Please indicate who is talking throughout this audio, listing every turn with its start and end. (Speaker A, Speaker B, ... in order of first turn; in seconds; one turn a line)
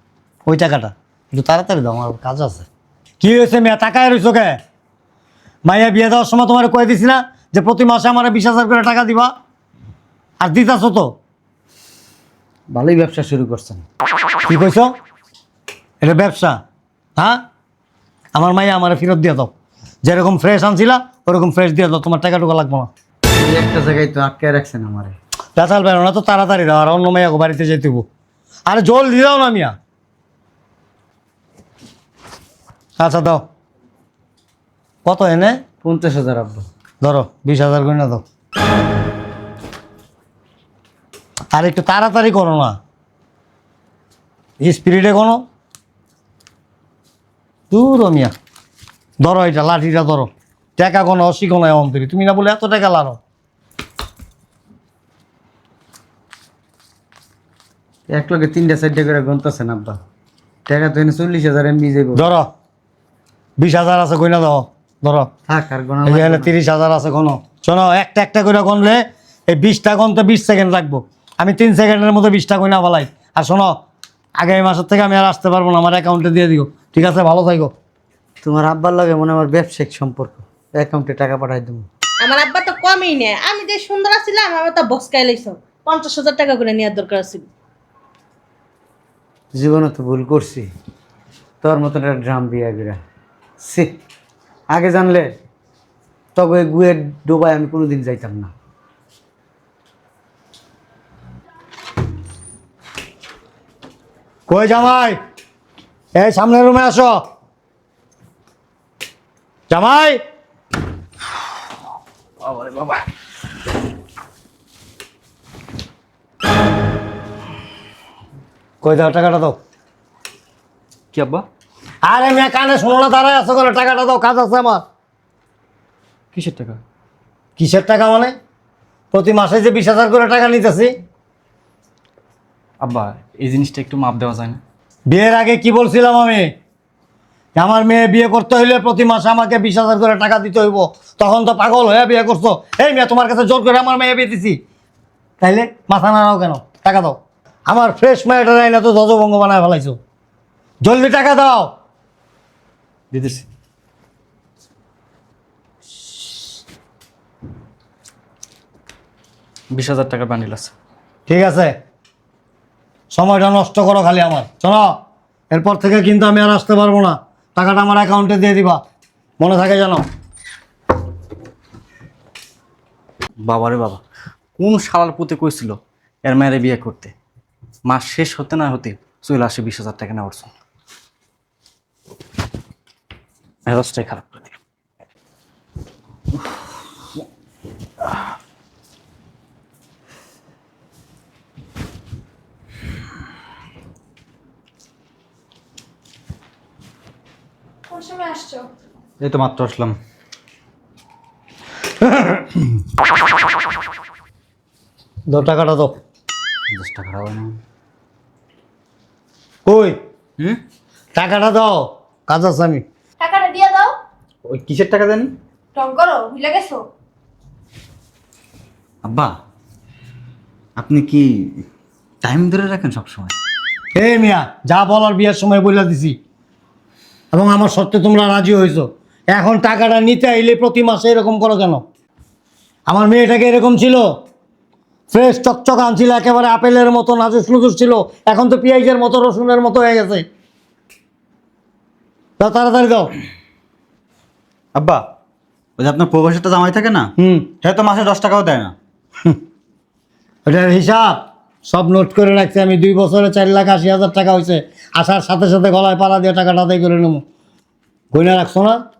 Speaker A: 0.5-2.7
Speaker A: 3.2-4.6
Speaker A: 5.7-9.3
Speaker A: 10.4-11.1
Speaker B: 12.7-13.8
Speaker A: 14.5-14.9
Speaker A: 16.0-16.6
Speaker A: 17.2-17.4
Speaker A: 18.3-19.5
Speaker A: 20.0-22.9
Speaker B: 23.4-25.2
Speaker A: 25.6-28.1
Speaker A: 28.7-29.8
Speaker A: 33.0-33.4
Speaker A: 35.0-35.6
Speaker B: 35.8-36.6
Speaker A: 37.0-38.2
Speaker A: 41.5-42.8
Speaker A: 44.6-45.4
Speaker A: 47.7-48.3
Speaker A: 49.2-53.2
Speaker B: 58.1-60.0
Speaker B: 60.7-62.3
Speaker A: 62.2-62.5
Speaker A: 63.6-65.3
Speaker B: 65.5-66.5
Speaker A: 66.0-73.8
Speaker A: 74.4-77.7
Speaker B: 78.4-81.9
Speaker C: 82.2-87.5
Speaker B: 89.5-90.7
Speaker B: 91.6-93.0
Speaker B: 93.6-94.0
Speaker B: 94.7-95.3
Speaker B: 96.3-98.5
Speaker A: 104.5-105.2
Speaker A: 106.2-107.2
Speaker A: 109.7-110.2
Speaker D: 112.5-113.0
Speaker A: 118.8-119.6
Speaker D: 121.1-121.5
Speaker A: 122.0-124.8
Speaker D: 126.3-126.8
Speaker A: 127.6-128.3
Speaker A: 129.1-131.0
Speaker D: 132.8-134.6
Speaker A: 135.1-136.5
Speaker A: 137.6-144.6
Speaker A: 145.4-150.0
Speaker A: 150.8-151.7
Speaker D: 153.1-153.4
Speaker D: 159.7-160.7
Speaker A: 161.3-161.7
Speaker A: 163.1-165.0
Speaker A: 165.5-168.8
Speaker A: 169.4-170.0
Speaker D: 173.4-174.0
Speaker D: 174.6-177.1
Speaker D: 177.9-180.5
Speaker D: 183.7-184.5
Speaker E: 197.9-198.6
Speaker F: 199.2-200.0
Speaker A: 205.3-206.0
Speaker F: 206.7-207.6
Speaker A: 209.7-210.0
Speaker A: 211.2-212.8
Speaker E: 213.2-213.9
Speaker F: 214.4-215.3
Speaker E: 215.8-216.8
Speaker F: 219.0-219.4
Speaker F: 220.8-221.6
Speaker F: 222.2-223.3
Speaker A: 223.9-226.2
Speaker A: 227.3-231.8
Speaker A: 232.9-234.2
Speaker A: 235.1-240.3
Speaker A: 242.4-243.1
Speaker F: 244.8-245.1
Speaker F: 245.8-248.8
Speaker A: 247.2-247.5
Speaker A: 250.5-257.2
Speaker A: 258.1-258.8